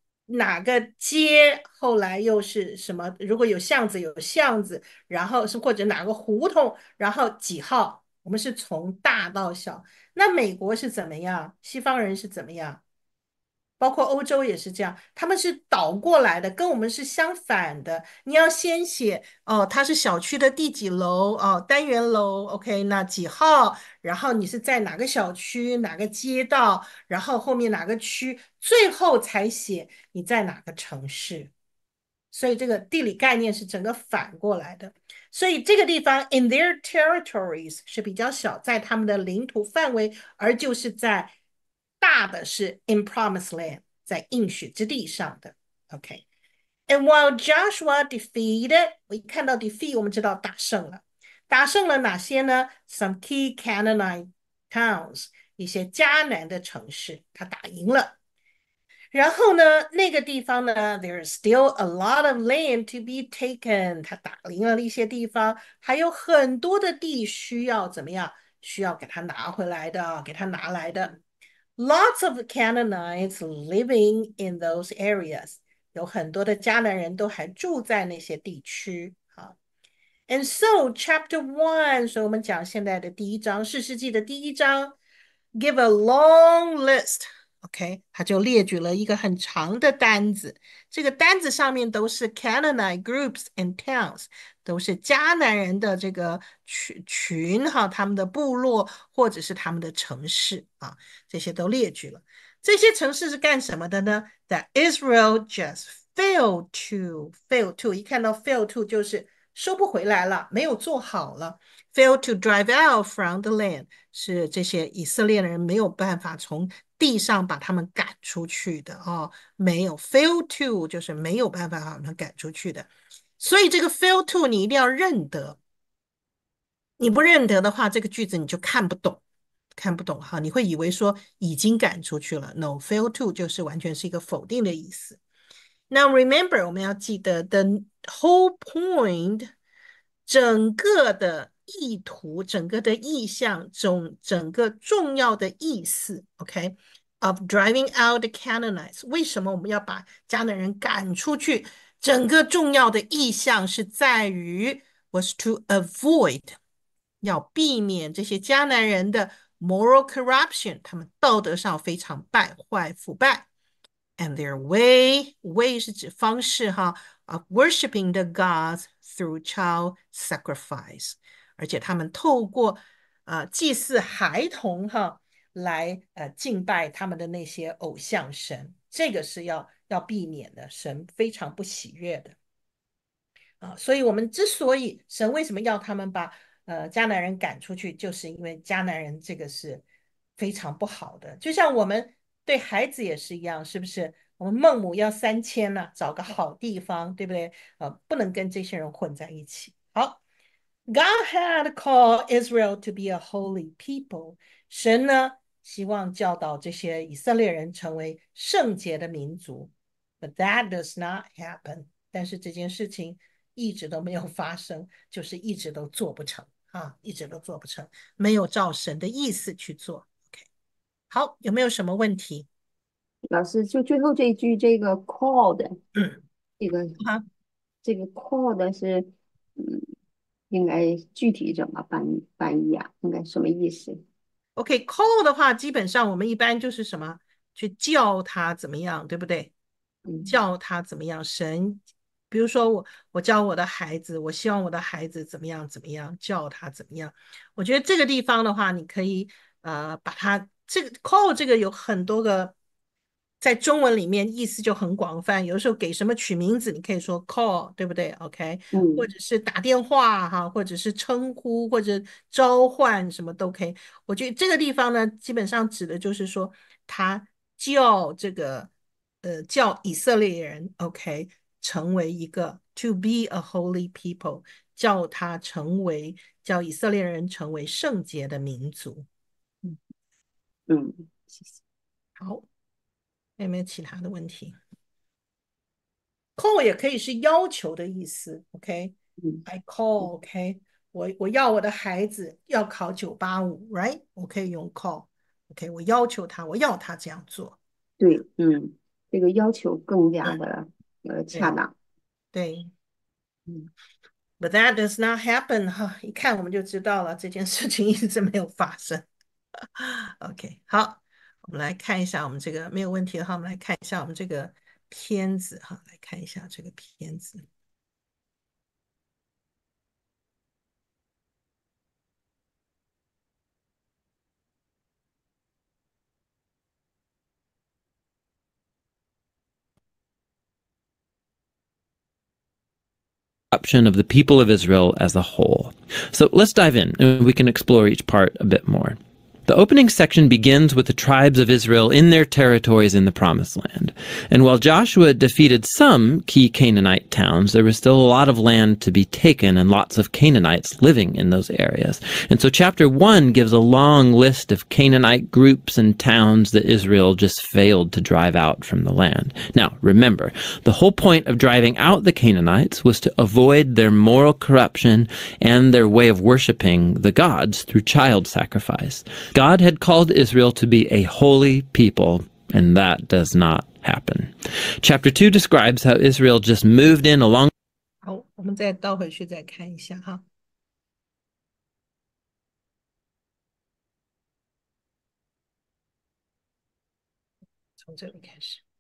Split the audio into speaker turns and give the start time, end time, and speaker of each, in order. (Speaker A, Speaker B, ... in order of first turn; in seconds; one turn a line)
Speaker A: 0.3-12.8
Speaker A: 13.8-31.5
Speaker A: 32.3-41.3
Speaker A: 42.0-46.2
Speaker A: 46.9-58.1
Speaker A: 59.1-71.2
Speaker A: 71.8-79.5
Speaker A: 80.3-85.0
Speaker A: 85.5-125.6
Speaker A: 127.0-129.2
Speaker A: 129.7-135.2
Speaker A: 135.9-139.5
Speaker A: 140.2-156.6
Speaker A: 157.2-163.5
Speaker A: 164.2-182.4
Speaker A: 183.6-189.8
Speaker A: 190.4-200.2
Speaker A: 200.9-220.4
Speaker A: 221.1-222.5
Speaker B: 223.3-225.8
Speaker B: 226.6-227.0
Speaker A: 227.0-227.2
Speaker B: 227.8-229.9
Speaker B: 230.5-234.0
Speaker A: 234.6-239.5
Speaker B: 240.1-240.3
Speaker A: 240.2-252.5
Speaker A: 253.4-268.7
Speaker B: 258.7-259.1
Speaker A: 269.2-279.1
Speaker B: 280.7-281.6
Speaker A: 282.2-282.4
Speaker A: 283.4-284.6
Speaker A: 286.4-288.9
Speaker A: 289.4-297.6
Speaker B: 298.0-301.7
Speaker A: 302.3-302.7
Speaker A: 304.4-309.1
Speaker A: 309.6-317.5
Speaker C: 333.5-377.5
Speaker A: 378.0-380.2
Speaker A: 387.8-388.6